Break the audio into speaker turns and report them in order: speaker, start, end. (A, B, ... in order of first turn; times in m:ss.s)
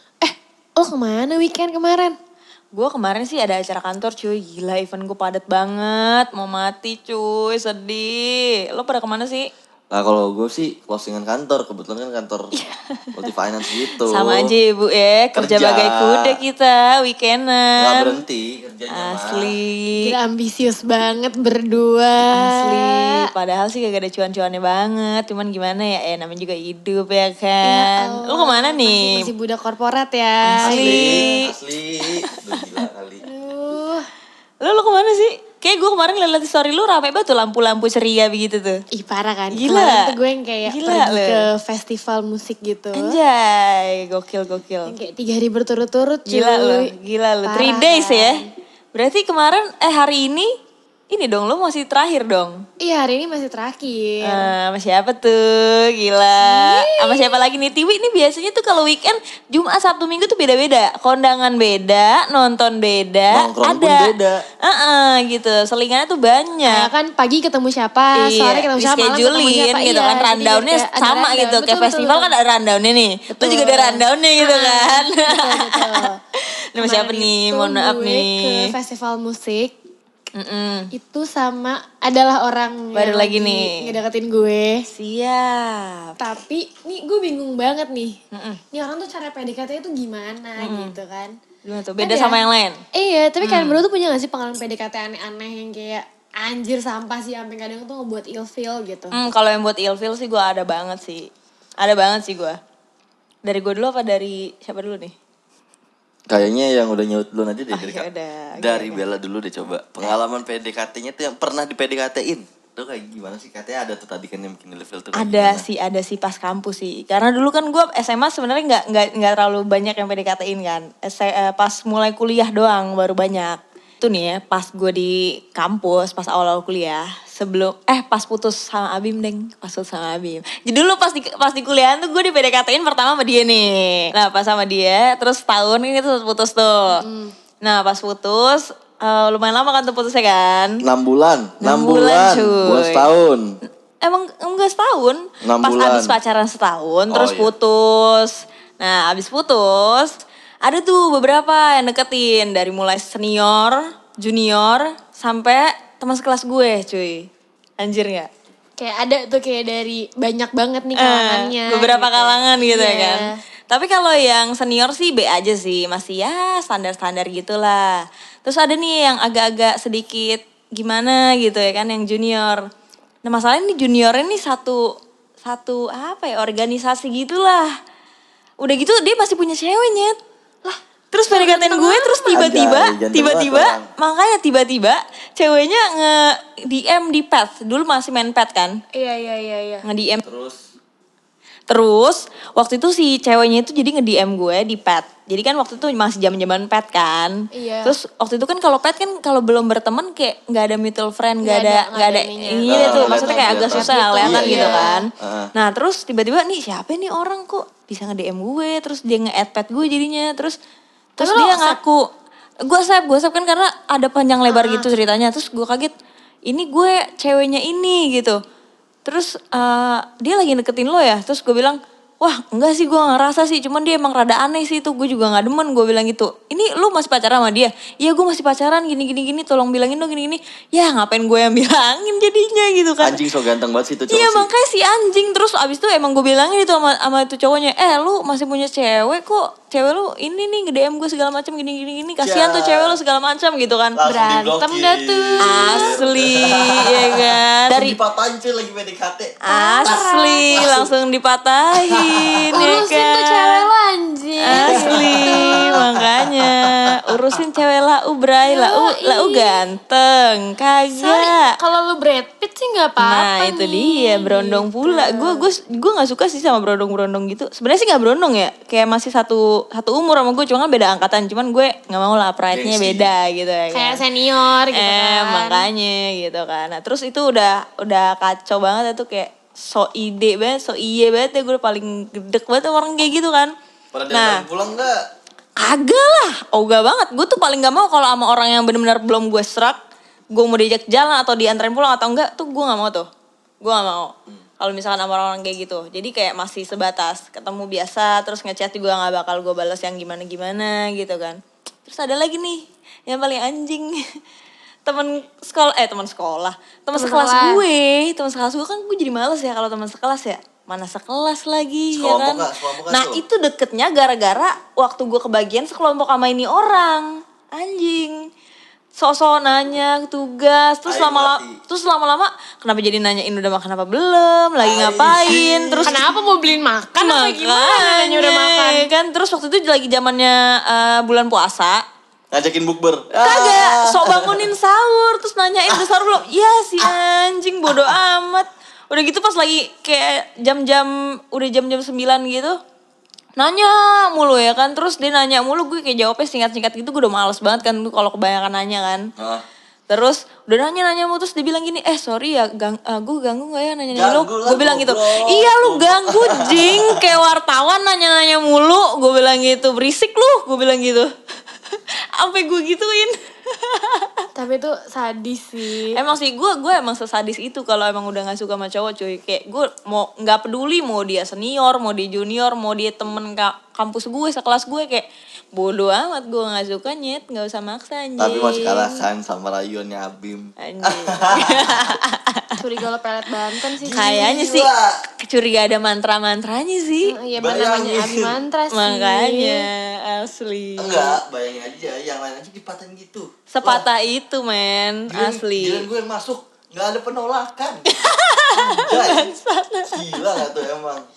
0:00.2-0:02.2 A
0:02.7-0:09.5 B
0:09.9-0:12.5 C
0:12.6-0:18.2 B
0:13.1-0:14.5 C
0:15.4-0:16.4 C
0:17.8-0:19.5 C
0:18.9-0:20.1 B
0:20.0-0:23.3 A
0:22.3-0:29.3 B
0:27.6-0:31.3 A
0:30.4-0:32.8 B
0:30.6-0:33.2 C
0:33.2-0:34.0 A
0:34.6-0:38.8 B
0:38.9-0:43.2 A
0:39.5-0:41.5 B
0:42.9-0:44.9 B
0:44.8-0:46.9 A
0:46.3-0:50.5 B
0:47.4-0:48.5 A
0:51.1-0:52.6 B
0:52.8-0:54.5 A
0:54.2-1:06.9 B
0:56.4-0:57.4 A
1:03.3-1:04.4 C
1:06.6-1:12.3 A
1:08.2-1:18.7 B
1:13.3-1:16.2 A
1:16.8-1:19.7 A
1:20.3-1:20.9 B
1:20.9-1:24.8 A
1:22.9-1:23.8 B
1:24.9-1:26.2 B
1:26.2-1:28.2 A
1:28.3-1:28.6 B
1:28.7-1:31.4 A
1:30.6-1:30.9 B
1:31.6-1:32.8 B
1:32.0-1:32.4 A
1:32.9-1:39.2 A
1:33.4-1:33.8 B
1:39.1-1:42.6 B
1:43.4-1:45.1 B
1:46.3-1:55.6 C
1:47.7-1:49.0 B
1:55.1-2:17.0 B
2:16.9-2:17.3 A
2:17.6-2:20.8 B
2:20.8-2:23.6 C
2:21.6-2:23.1 B
2:24.0-2:37.3 B
2:25.4-2:26.1 C
2:27.1-2:27.5 C
2:37.8-2:38.3 B
2:38.8-2:43.4 A
2:41.0-2:52.6 B
2:53.2-2:57.7 B
2:58.6-3:00.2 B
3:00.6-3:02.6 A
3:01.1-3:08.8 B
3:02.3-3:03.9 C
3:08.9-3:09.8 A
3:09.8-3:10.2 B
3:10.2-3:10.7 C
3:11.7-3:30.6 B
3:17.5-3:18.0 A
3:21.4-3:25.0 A
3:22.6-3:25.5 C
3:31.2-3:32.1 B
3:31.2-3:31.8 A
3:32.6-3:35.9 B
3:34.5-3:34.9 A
3:36.5-3:38.4 B
3:39.0-3:53.2 B
3:53.0-3:54.5 C
3:54.1-4:04.0 B
4:02.2-4:03.0 C
4:04.0-4:10.0 C
4:04.0-4:06.0 A
4:05.4-4:08.0 B
4:09.4-4:13.6 B
4:09.5-4:10.8 A
4:10.6-4:10.9 C
4:11.7-4:12.8 C
4:12.5-4:15.8 A
4:14.4-4:21.5 B
4:14.5-4:17.4 C
4:18.4-4:19.6 A
4:21.0-4:25.5 A
4:23.0-4:34.0 B
4:32.5-4:33.1 C
4:33.7-4:35.6 A
4:34.6-4:43.5 B
4:43.9-4:45.0 C
4:44.1-4:44.4 B
4:45.6-4:49.8 B
4:50.3-4:53.1 B
4:53.6-5:04.0 B
5:04.8-5:18.2 B
5:06.9-5:07.6 A
5:11.9-5:13.2 C
5:18.9-5:26.0 B
5:20.8-5:21.6 C
5:24.6-5:26.0 C
5:25.8-5:28.9 A
5:27.0-5:31.8 B
5:32.3-5:34.5 C
5:33.2-5:42.6 B
5:35.7-5:35.9 C
5:37.7-5:37.9 C
5:43.4-5:49.1 B
5:49.2-5:49.4 C
5:49.9-6:01.1 B
5:53.9-5:57.1 C
6:01.7-6:04.3 B
6:04.3-6:06.0 A
6:05.9-6:18.8 B
6:18.2-6:22.0 C
6:18.4-6:19.0 A
6:20.6-6:22.6 B
6:22.6-6:24.1 A
6:23.8-6:25.0 C
6:23.9-6:27.2 B
6:27.0-6:29.7 A
6:27.3-6:28.3 C
6:28.7-6:31.2 B
6:30.8-6:33.8 C
6:33.5-6:35.8 B
6:35.1-6:37.8 C
6:37.9-6:40.5 B
6:38.5-6:39.3 C
6:39.9-6:41.1 C